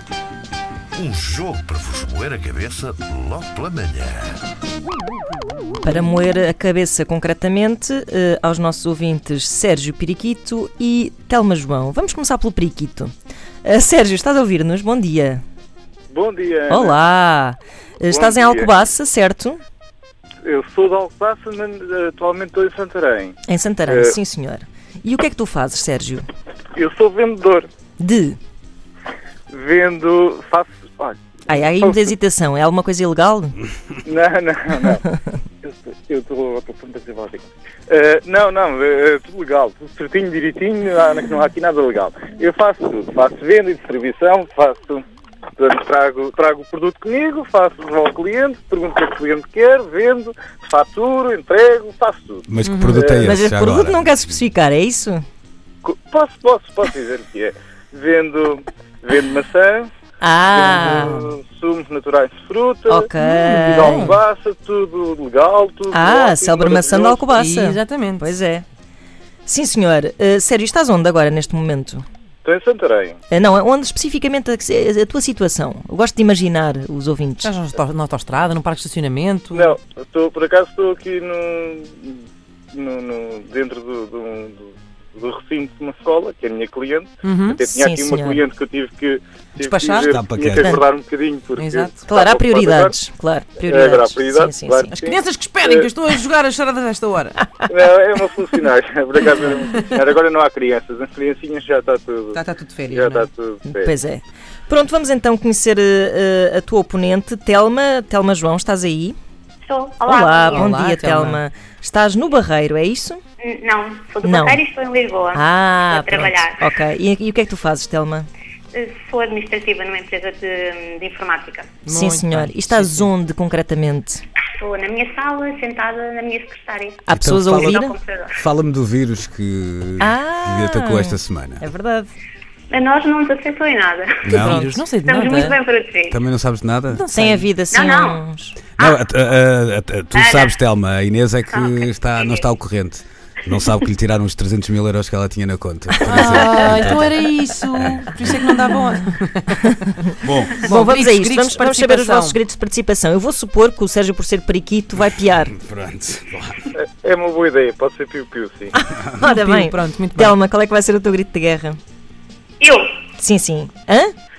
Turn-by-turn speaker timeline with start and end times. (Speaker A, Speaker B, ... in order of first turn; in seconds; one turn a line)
Speaker A: 0.9-4.4
Speaker B: 5.8-15.4
Speaker C: 16.1-17.0
Speaker B: 16.7-19.6
Speaker C: 18.1-18.8
Speaker C: 20.4-24.2
Speaker B: 23.5-26.3
Speaker C: 26.7-27.7
Speaker B: 28.0-28.4
Speaker C: 29.5-32.1
Speaker B: 31.5-33.6
Speaker C: 34.0-35.0
Speaker B: 35.1-35.4
Speaker C: 35.6-45.0
Speaker C: 45.6-53.3
Speaker D: 52.5-54.1
Speaker E: 52.6-53.1
Speaker B: 53.2-55.2
Speaker C: 55.8-59.9
Speaker B: 60.2-61.1
Speaker C: 60.5-67.3
Speaker E: 60.9-61.3
Speaker B: 62.9-64.2
Speaker E: 63.2-63.9
Speaker B: 65.9-68.6
Speaker E: 67.3-68.3
Speaker B: 69.5-72.0
Speaker C: 72.4-73.2
Speaker B: 73.3-77.5
Speaker E: 77.4-79.8
Speaker C: 79.5-82.2
Speaker C: 82.7-93.0
Speaker E: 87.2-87.7
Speaker B: 87.7-88.4
Speaker E: 89.6-90.2
Speaker D: 89.9-90.7
Speaker B: 90.6-90.8
Speaker E: 91.6-92.1
Speaker B: 92.1-95.0
Speaker C: 93.6-95.9
Speaker E: 95.0-97.5
Speaker C: 97.7-102.4
Speaker E: 102.3-103.3
Speaker C: 102.9-103.9
Speaker B: 103.7-109.2
Speaker F: 109.7-110.7
Speaker B: 110.0-113.2
Speaker E: 110.5-111.4
Speaker F: 113.4-116.6
Speaker B: 114.2-114.6
Speaker B: 115.3-118.3
Speaker F: 118.7-121.8
Speaker E: 121.8-123.1
Speaker B: 121.9-124.2
Speaker F: 124.6-127.0
Speaker B: 127.1-128.0
Speaker D: 127.1-131.6
Speaker F: 127.6-128.3
Speaker B: 130.0-131.2
Speaker E: 131.6-132.1
Speaker F: 132.7-134.2
Speaker D: 134.2-134.7
Speaker E: 134.2-135.6
Speaker B: 134.4-135.3
Speaker F: 135.0-136.2
Speaker D: 136.1-137.1
Speaker E: 136.9-137.5
Speaker B: 137.1-138.7
Speaker F: 137.7-138.2
Speaker F: 138.8-139.0
Speaker D: 138.8-147.1
Speaker F: 140.1-140.6
Speaker F: 141.5-142.4
Speaker E: 146.1-149.8
Speaker D: 150.2-150.6
Speaker E: 150.5-152.4
Speaker B: 150.6-155.6
Speaker D: 155.5-156.6
Speaker C: 156.7-158.7
Speaker B: 158.7-161.8
Speaker E: 159.2-160.4
Speaker F: 162.6-162.9
Speaker B: 163.2-164.1